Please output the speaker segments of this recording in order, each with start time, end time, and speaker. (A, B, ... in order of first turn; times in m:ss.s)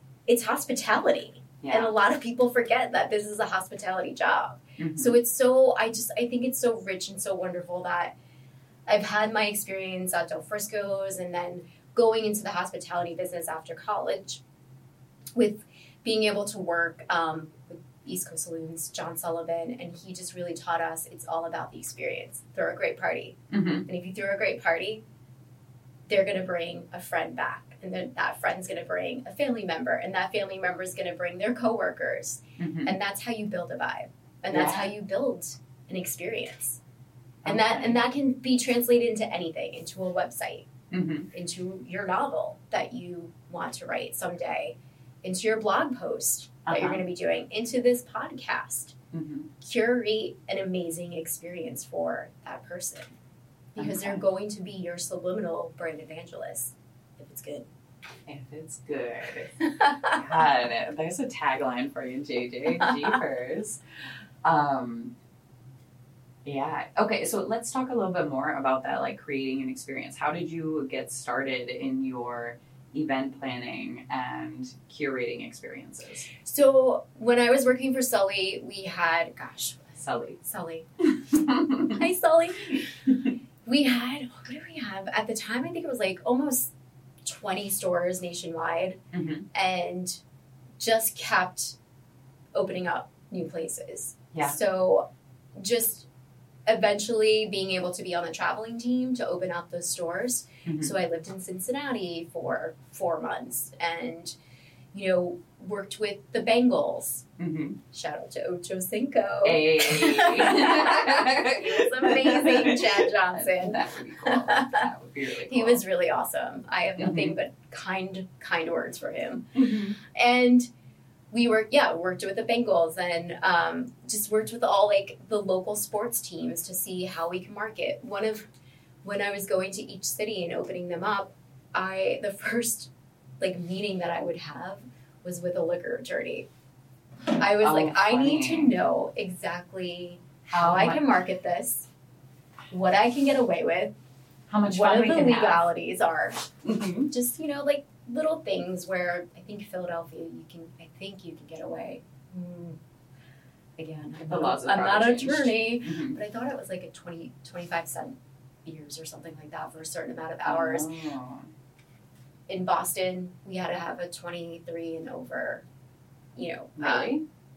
0:00.3-0:08.1 A
0:01.6-0:01.9 B
0:04.8-0:05.2 B
0:08.9-0:14.4 A
0:15.3-0:25.0 A
0:23.5-0:23.8 B
0:26.1-0:36.8 A
0:32.6-0:32.9 B
0:34.5-0:34.9 B
0:37.4-0:38.0 B
0:37.4-0:40.7 A
0:40.9-0:41.3 B
0:41.3-0:48.9 A
0:46.7-0:47.0 B
0:49.1-0:49.5 B
0:49.6-0:53.1 A
0:53.7-0:57.7 A
0:53.8-0:54.2 B
0:58.3-1:03.8 B
1:04.4-1:05.1 B
1:06.4-1:16.3 B
1:16.4-1:20.9 A
1:20.0-1:20.4 B
1:21.3-1:21.9 B
1:21.8-1:22.9 A
1:23.6-1:26.7 A
1:27.2-1:29.0 A
1:29.1-1:29.4 B
1:29.5-1:30.2 A
1:30.8-1:31.8 A
1:32.5-1:36.1 A
1:34.3-1:34.6 B
1:36.6-1:44.3 A
1:40.6-1:40.9 B
1:44.9-1:47.2 A
1:47.4-1:47.8 B
1:47.9-1:54.8 A
1:49.4-1:55.8 B
1:55.5-2:00.7 A
1:57.0-1:57.3 B
1:59.5-2:00.0 B
2:01.3-2:08.4 A
2:09.0-2:16.5 A
2:17.4-2:21.9 A
2:17.6-2:18.7 B
2:20.5-2:21.0 B
2:22.7-2:23.9 A
2:24.5-2:25.6 B
2:24.6-2:26.4 A
2:26.6-2:27.1 B
2:27.1-2:32.8 A
2:33.8-2:40.9 A
2:34.3-2:36.2 B
2:40.4-2:41.5 B
2:42.5-2:45.6 A
2:46.3-2:47.2 A
2:46.8-2:47.2 B